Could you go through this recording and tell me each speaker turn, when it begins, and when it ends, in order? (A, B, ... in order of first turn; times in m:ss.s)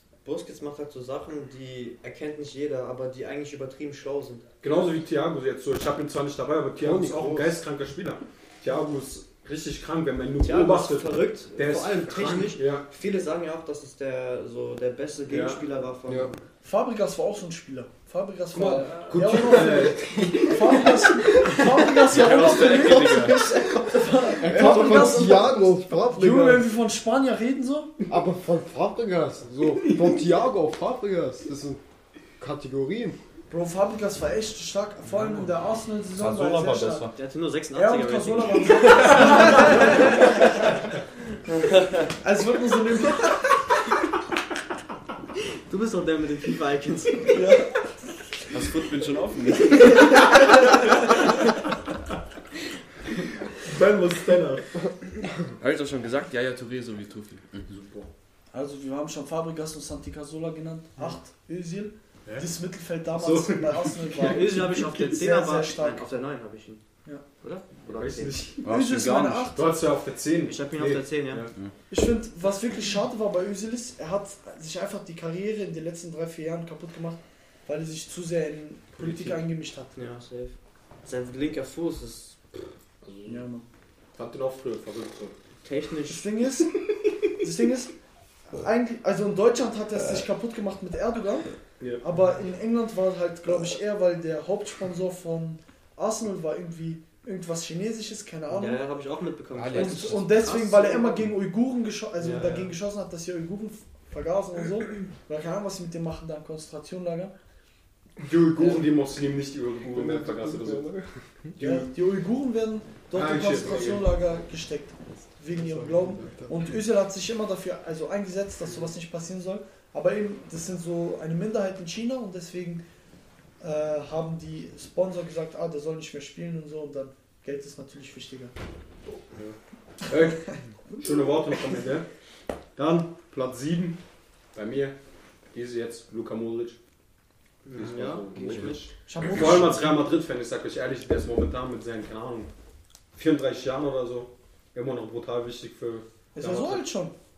0:00.2-0:04.5 A
0:04.6-0:12.9 B
0:06.8-0:07.6 C
0:10.4-0:16.4 A
0:15.3-0:15.6 B
0:16.1-0:16.3 C
0:16.6-0:28.0 D
0:18.5-0:20.4 B
0:19.9-0:20.3 C
0:22.1-0:23.5 E
0:22.7-0:26.7 C
0:24.3-0:25.3 B
0:28.1-0:31.8 C
0:29.6-0:30.2 B
0:32.4-0:33.2 C
0:33.5-0:37.1 D
0:36.2-0:37.2 F
0:37.2-0:40.2 A
0:37.7-0:40.4 D
0:42.2-0:43.4 D
0:45.7-0:47.6 A
0:47.3-0:47.8 D
0:48.5-0:50.3 F
0:53.6-0:54.7 B
0:55.6-0:57.5 E
0:57.7-0:58.1 B
0:58.5-1:06.0 D
1:03.2-1:04.7 B
1:04.2-1:06.8 A
1:07.4-1:08.5 A
1:07.9-1:08.7 B
1:08.6-1:09.6 F
1:08.6-1:09.7 D
1:09.5-1:11.5 B
1:10.5-1:11.5 A
1:11.9-1:20.0 D
1:19.0-1:19.4 B
1:20.0-1:22.7 A
1:23.0-1:23.5 B
1:23.3-1:23.6 D
1:24.2-1:25.4 B
1:25.6-1:26.3 A
1:26.1-1:26.7 D
1:27.4-1:27.9 D
1:28.5-1:38.8 D
1:38.5-1:41.3 A
1:39.5-1:40.5 E
1:39.7-1:47.3 D
1:42.2-1:42.7 B
1:48.2-1:50.9 B
1:48.6-1:48.8 C
1:49.8-1:51.2 C
1:51.6-1:51.9 B
1:51.6-2:02.8 D
1:53.1-1:54.1 B
1:55.5-1:56.8 C
2:03.6-2:08.5 D
2:10.1-2:12.1 B
2:12.8-2:14.0 B
2:14.5-2:15.0 B
2:15.5-2:16.8 B
2:17.6-2:18.9 A
2:17.7-2:22.5 B
2:19.1-2:20.0 D
2:23.1-2:26.9 B
2:26.4-2:27.1 D